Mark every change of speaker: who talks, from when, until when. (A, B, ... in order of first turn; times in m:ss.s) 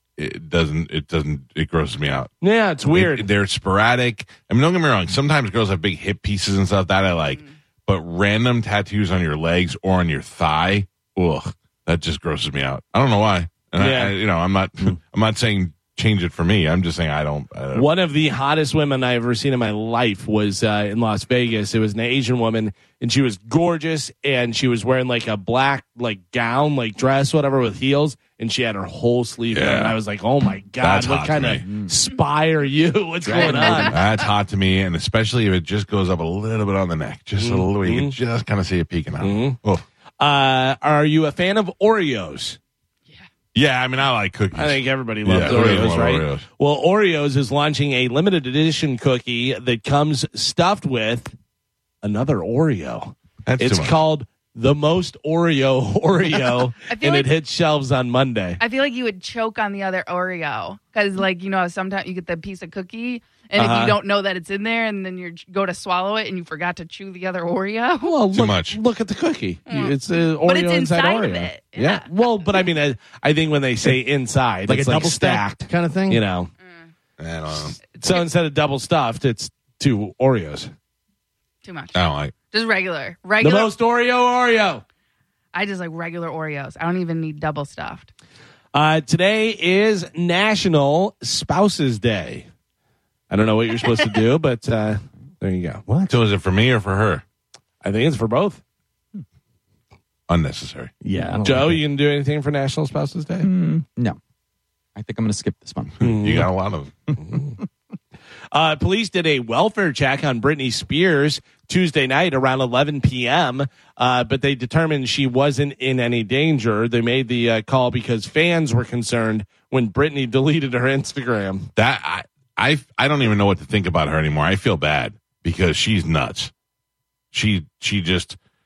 0:00.2-0:02.3 A
0:02.4-0:03.3 B
0:02.9-0:17.9 A
0:13.8-0:14.2 B
0:17.7-0:34.0 B
0:29.5-0:30.0 A
0:30.8-0:31.6 A
0:33.3-0:34.3 C
0:33.8-0:39.8 A
0:37.4-0:38.2 B
0:39.2-0:39.6 B
0:40.2-0:42.6 B
0:43.5-0:46.4 A
0:44.5-0:51.3 B
0:52.0-0:58.6 B
0:53.4-0:54.0 A
0:56.8-0:57.3 C
0:58.6-1:08.2 C
1:03.6-1:04.0 B
1:08.0-1:16.5 B
1:08.3-1:08.8 A
1:09.7-1:12.1 C
1:14.7-1:16.2 D
1:17.2-1:17.8 A
1:17.9-1:20.7 B
1:18.0-1:18.3 C
1:21.6-1:23.7 C
1:21.9-1:22.3 A
1:23.4-1:24.8 B
1:25.5-1:28.1 C
1:28.7-1:32.4 B
1:33.3-1:35.8 B
1:35.9-1:36.2 D
1:36.1-1:37.2 A
1:37.8-1:38.6 B
1:40.3-1:40.9 A
1:41.0-1:41.8 D
1:41.4-1:43.5 B
1:43.4-1:44.2 E
1:45.0-1:46.1 E
1:46.0-1:46.9 A
1:46.0-1:46.5 B
1:48.5-2:01.7 B
2:01.8-2:06.5 A
2:07.3-2:08.4 A